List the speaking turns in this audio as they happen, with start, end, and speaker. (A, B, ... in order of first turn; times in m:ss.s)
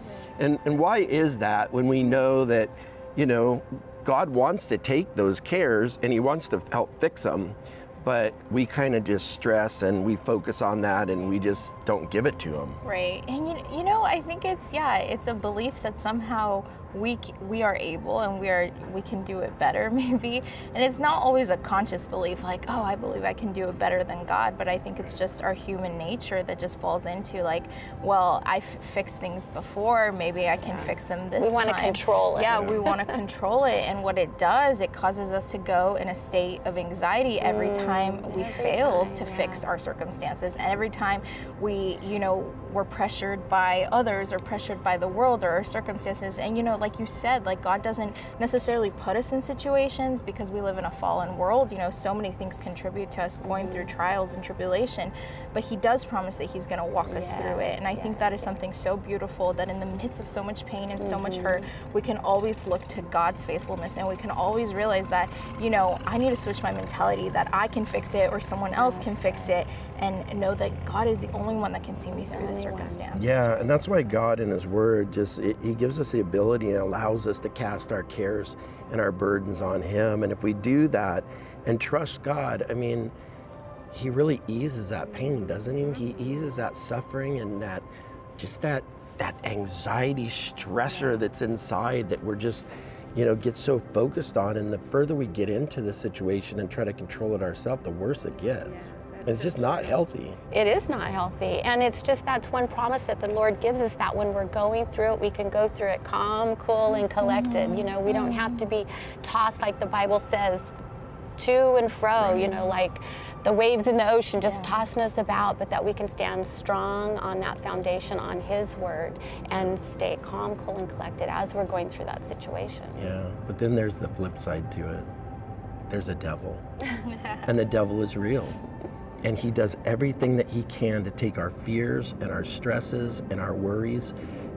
0:00.3-0:12.8 A
0:12.8-1:14.0 B
0:30.6-0:33.0 C
0:37.4-0:39.6 C
0:53.4-0:53.9 C
0:57.0-0:58.9 C
1:01.0-1:01.7 C
1:08.7-1:09.6 C
1:12.3-1:13.0 C
1:13.1-1:23.1 A
1:23.9-1:27.9 A
1:28.4-1:40.4 A
1:38.8-1:50.7 C
1:47.2-1:48.4 B
1:51.4-2:03.0 C
1:52.2-1:52.5 A
1:54.4-1:54.8 B
2:02.9-2:05.1 A
2:05.9-2:06.6 A
2:07.0-2:07.5 B
2:07.4-2:08.6 A
2:09.2-2:14.1 A